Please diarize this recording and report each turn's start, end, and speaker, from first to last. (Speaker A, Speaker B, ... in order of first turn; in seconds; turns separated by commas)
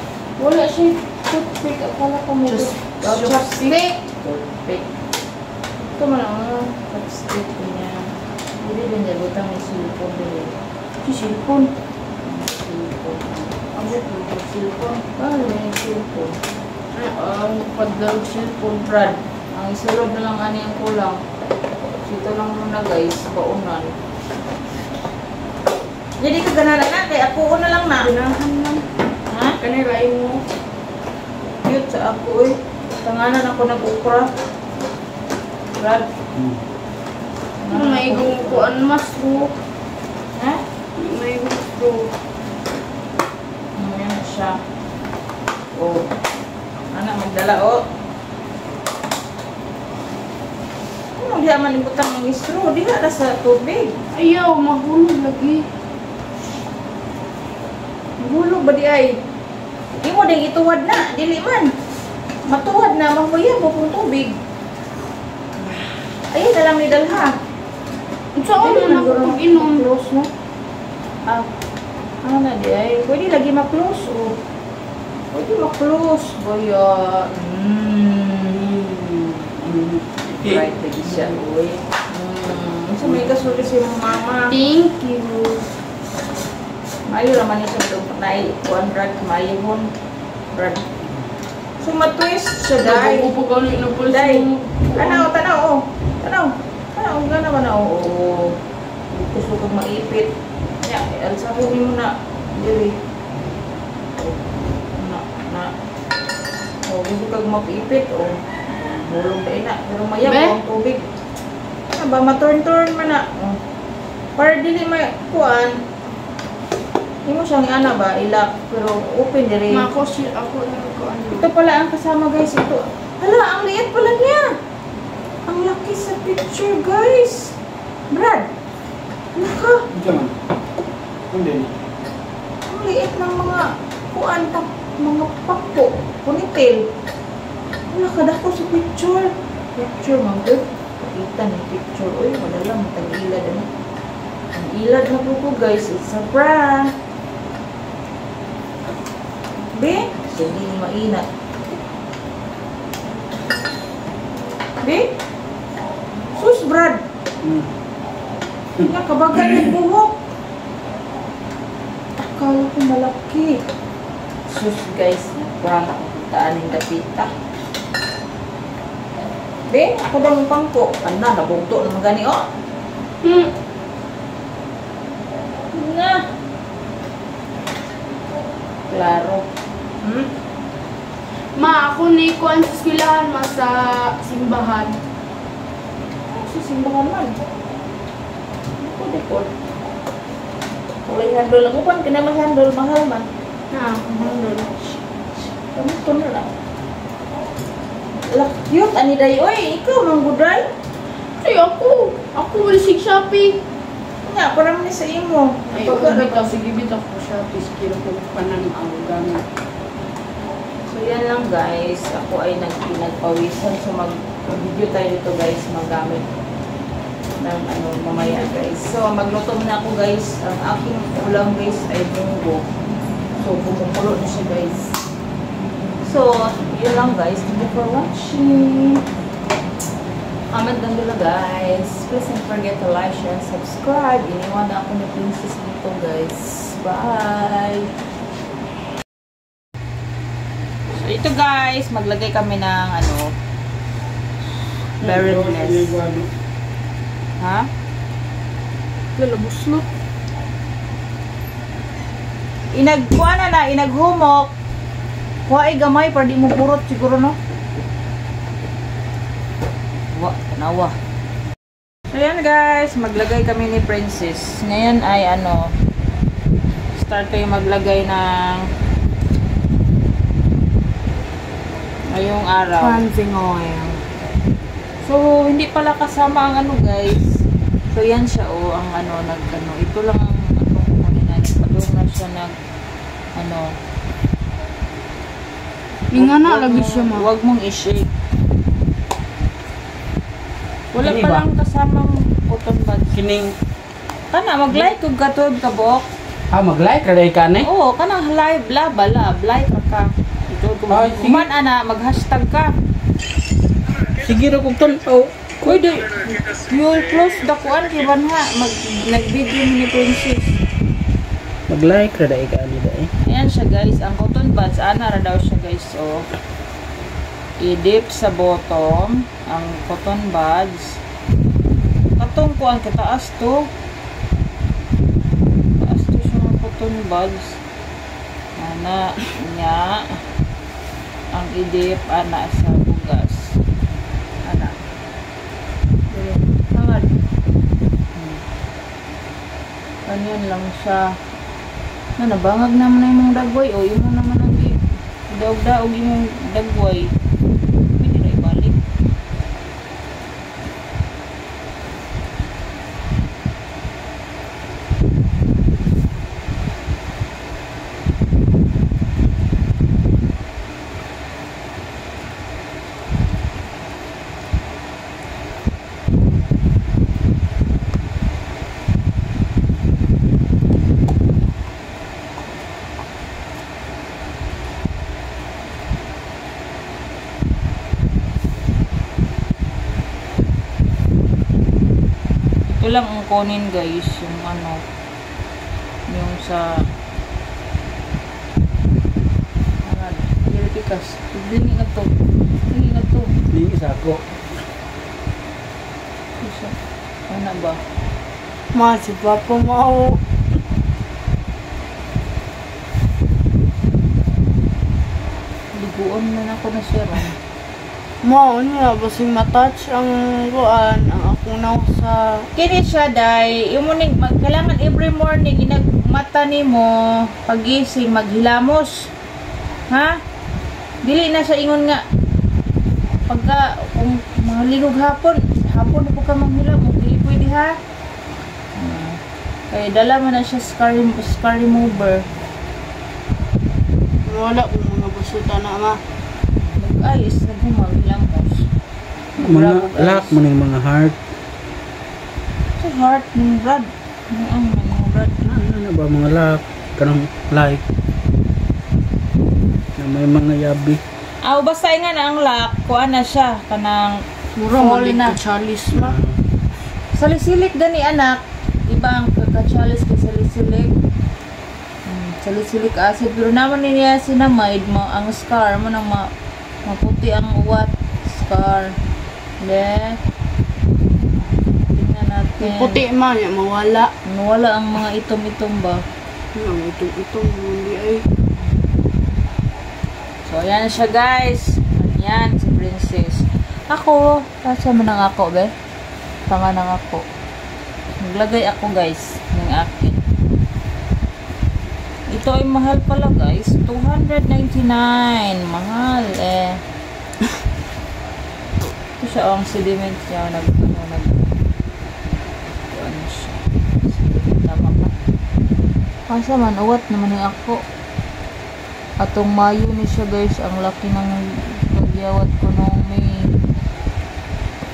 Speaker A: 0.4-4.9, Speaker B: 2.5-3.9, Speaker A: 6.0-11.7, Speaker A: 12.2-16.4, Speaker B: 16.9-19.1, Speaker A: 18.9-21.2, Speaker A: 22.1-23.9, Speaker A: 26.2-28.1, Speaker B: 28.0-28.9, Speaker A: 29.3-29.6, Speaker B: 29.6-30.4, Speaker A: 31.6-34.3, Speaker A: 35.8-36.1, Speaker A: 37.6-38.7, Speaker B: 37.7-39.5, Speaker A: 40.4-40.6, Speaker B: 41.0-42.1, Speaker A: 43.8-44.6, Speaker A: 45.7-46.1, Speaker A: 46.9-47.8, Speaker A: 51.2-54.0, Speaker B: 54.1-55.6, Speaker A: 58.2-59.2, Speaker A: 60.0-61.7, Speaker A: 62.5-64.4, Speaker A: 66.3-67.3, Speaker B: 68.4-69.8, Speaker A: 68.6-70.3, Speaker A: 72.2-74.4, Speaker A: 75.3-79.5, Speaker C: 79.6-80.6, Speaker A: 80.3-84.5, Speaker B: 84.5-85.7, Speaker A: 87.1-89.9, Speaker A: 90.5-90.9, Speaker A: 91.8-93.3, Speaker B: 92.8-95.3, Speaker A: 94.1-98.6, Speaker A: 99.1-103.0, Speaker A: 105.0-105.7, Speaker A: 106.9-111.1, Speaker B: 110.2-110.6, Speaker A: 111.9-113.6, Speaker A: 114.4-115.8, Speaker A: 117.3-119.9, Speaker B: 119.7-121.5, Speaker A: 121.4-124.5, Speaker A: 125.5-127.5, Speaker A: 128.1-128.5, Speaker A: 129.3-129.8, Speaker C: 129.9-130.4, Speaker C: 131.3-131.8, Speaker A: 132.7-136.9, Speaker A: 137.9-143.7, Speaker A: 144.5-146.9, Speaker A: 149.7-151.3, Speaker A: 154.8-155.1, Speaker A: 156.3-157.0, Speaker C: 157.4-157.7, Speaker A: 158.8-160.2, Speaker A: 162.2-163.6, Speaker A: 164.5-167.3, Speaker A: 169.7-172.4, Speaker B: 173.2-173.5, Speaker A: 175.7-176.3, Speaker A: 178.9-179.5, Speaker A: 180.0-180.3, Speaker B: 181.6-185.0, Speaker A: 186.3-187.4, Speaker A: 188.8-189.5, Speaker A: 191.1-193.3, Speaker B: 193.7-195.0, Speaker A: 195.6-196.5, Speaker A: 198.2-200.7, Speaker B: 201.4-203.6, Speaker A: 204.3-206.6, Speaker B: 205.7-209.4, Speaker A: 210.9-216.2, Speaker A: 217.4-222.7, Speaker A: 223.4-225.0, Speaker A: 226.0-229.0, Speaker A: 230.5-237.9, Speaker A: 240.9-243.3, Speaker A: 245.0-246.0, Speaker C: 245.0-246.3, Speaker A: 247.4-247.7, Speaker B: 249.2-249.9, Speaker A: 252.7-254.5, Speaker A: 255.5-257.4, Speaker A: 260.1-260.9, Speaker A: 262.1-265.8, Speaker A: 266.9-268.7, Speaker A: 272.1-273.0, Speaker B: 272.8-274.0, Speaker A: 275.0-277.4, Speaker A: 277.9-282.6, Speaker A: 283.4-283.7, Speaker B: 286.1-287.2, Speaker A: 286.1-288.1, Speaker A: 290.9-293.1, Speaker C: 291.0-291.4, Speaker C: 293.1-293.6, Speaker A: 294.3-296.1, Speaker C: 296.5-297.7, Speaker A: 297.6-300.1, Speaker B: 300.6-301.3, Speaker A: 300.8-302.7, Speaker C: 300.9-301.4, Speaker C: 304.1-305.8, Speaker A: 305.6-310.6, Speaker C: 311.7-313.1, Speaker A: 313.2-316.2, Speaker A: 317.6-321.0, Speaker A: 322.2-323.7, Speaker A: 325.8-327.6, Speaker A: 328.6-330.1, Speaker A: 331.3-333.6, Speaker A: 334.4-334.8, Speaker A: 336.1-337.1, Speaker A: 338.2-338.4, Speaker A: 340.1-341.1, Speaker A: 342.2-344.8, Speaker A: 345.3-347.1, Speaker A: 348.0-348.8, Speaker A: 382.7-384.8, Speaker A: 386.1-386.9, Speaker A: 389.9-393.4, Speaker C: 393.5-394.2, Speaker A: 396.4-396.8, Speaker A: 397.3-397.8, Speaker B: 398.7-400.2, Speaker A: 405.8-407.4, Speaker B: 408.2-412.5, Speaker A: 412.6-419.1, Speaker A: 419.9-420.2, Speaker A: 421.1-422.0, Speaker A: 423.3-427.8, Speaker A: 428.8-429.2, Speaker A: 429.7-432.3, Speaker B: 434.2-436.0, Speaker A: 436.6-438.7, Speaker A: 439.4-440.4, Speaker C: 439.4-441.2, Speaker A: 442.8-445.5, Speaker C: 445.5-447.8, Speaker C: 450.0-451.0, Speaker A: 451.4-455.4, Speaker B: 454.6-456.2, Speaker C: 455.9-456.4, Speaker A: 457.1-460.9, Speaker A: 462.1-466.3, Speaker A: 466.9-469.0, Speaker A: 469.6-470.2, Speaker A: 471.4-473.0, Speaker B: 472.6-474.1, Speaker A: 474.3-476.0, Speaker B: 476.6-478.2, Speaker A: 480.5-485.7, Speaker A: 486.5-487.2, Speaker A: 488.2-490.2, Speaker A: 492.3-496.8, Speaker A: 499.2-501.5, Speaker A: 502.9-505.2, Speaker A: 506.3-507.8, Speaker A: 509.2-513.5